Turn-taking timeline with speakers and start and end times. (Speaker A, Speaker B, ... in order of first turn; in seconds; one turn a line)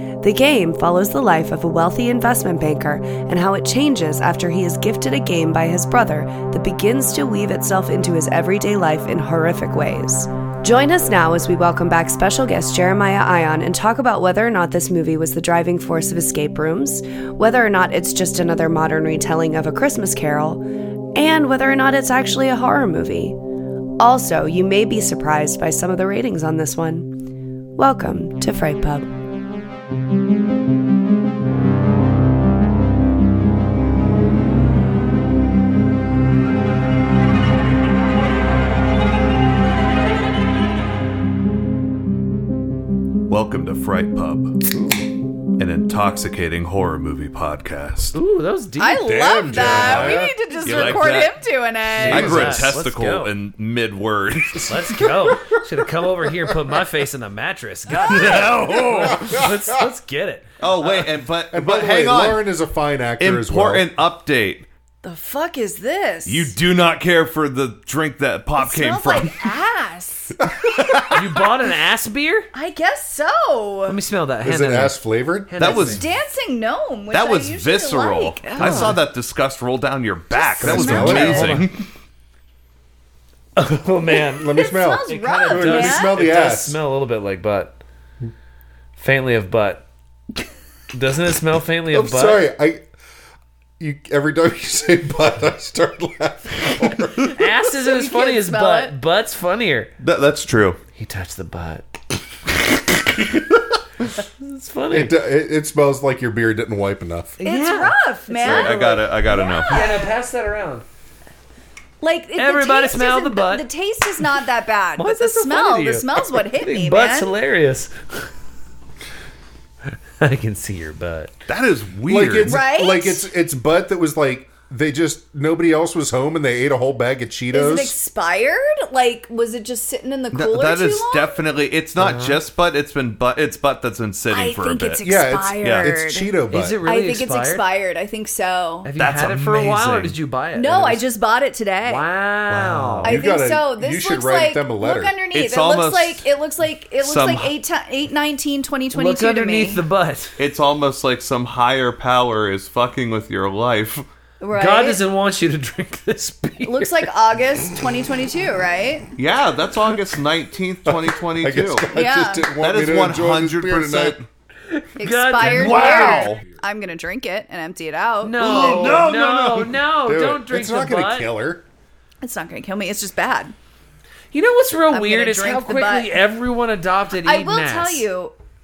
Speaker A: 0.2-23.4
Speaker A: 24.0-27.2
Speaker A: 27.8-29.1
Speaker B: 43.3-44.6
Speaker B: 45.6-48.2
Speaker C: 48.1-49.9
Speaker D: 48.8-52.5
Speaker E: 49.0-51.0
Speaker B: 49.6-51.3
Speaker C: 51.9-53.3
Speaker E: 52.1-52.7
Speaker B: 52.1-54.7
Speaker C: 54.6-60.5
Speaker E: 55.2-55.5
Speaker B: 58.1-59.2
Speaker E: 58.1-59.8
Speaker B: 60.6-62.5
Speaker E: 61.5-63.9
Speaker B: 63.2-64.7
Speaker D: 65.0-66.5
Speaker B: 66.3-69.5
Speaker D: 68.6-71.1
Speaker E: 70.4-70.7
Speaker C: 71.1-72.5
Speaker D: 72.5-74.0
Speaker C: 73.9-76.0
Speaker E: 74.4-75.8
Speaker B: 75.6-76.2
Speaker D: 75.6-79.0
Speaker B: 77.1-81.9
Speaker C: 78.5-79.0
Speaker D: 80.3-81.6
Speaker E: 80.6-81.7
Speaker C: 80.7-81.7
Speaker C: 83.6-87.8
Speaker E: 84.3-86.8
Speaker D: 84.5-86.3
Speaker C: 89.0-89.8
Speaker C: 90.9-92.5
Speaker E: 91.9-92.8
Speaker E: 93.8-97.5
Speaker C: 97.3-99.9
Speaker D: 97.7-98.9
Speaker B: 100.0-100.8
Speaker C: 101.0-101.9
Speaker C: 104.4-105.1
Speaker E: 104.9-107.4
Speaker C: 107.4-108.8
Speaker D: 107.4-110.1
Speaker B: 108.4-109.9
Speaker C: 109.7-110.8
Speaker D: 112.0-117.3
Speaker C: 112.4-113.7
Speaker C: 115.0-118.3
Speaker C: 120.2-121.3
Speaker B: 121.5-122.6
Speaker E: 122.1-128.0
Speaker D: 122.4-123.3
Speaker D: 127.5-131.4
Speaker B: 130.3-135.0
Speaker C: 132.0-132.4
Speaker D: 134.3-136.3
Speaker E: 135.0-136.8
Speaker B: 135.6-135.9
Speaker C: 136.5-137.6
Speaker D: 136.8-138.9
Speaker C: 138.8-141.0
Speaker B: 139.0-140.2
Speaker D: 140.6-142.1
Speaker C: 141.8-143.1
Speaker B: 142.5-143.1
Speaker E: 143.0-145.2
Speaker D: 143.0-149.8
Speaker B: 145.3-146.3
Speaker B: 147.0-147.5
Speaker C: 148.9-150.4
Speaker B: 150.4-154.0
Speaker D: 154.4-155.0
Speaker C: 154.6-157.1
Speaker D: 156.6-159.1
Speaker B: 159.2-161.9
Speaker E: 160.8-164.2
Speaker D: 161.9-162.5
Speaker B: 162.6-164.3
Speaker C: 164.7-166.3
Speaker D: 165.0-168.6
Speaker B: 165.4-166.4
Speaker C: 168.2-171.3
Speaker E: 168.4-169.3
Speaker B: 168.4-169.8
Speaker E: 170.0-171.6
Speaker D: 172.2-173.5
Speaker C: 174.3-178.1
Speaker D: 174.9-176.1
Speaker D: 177.2-178.3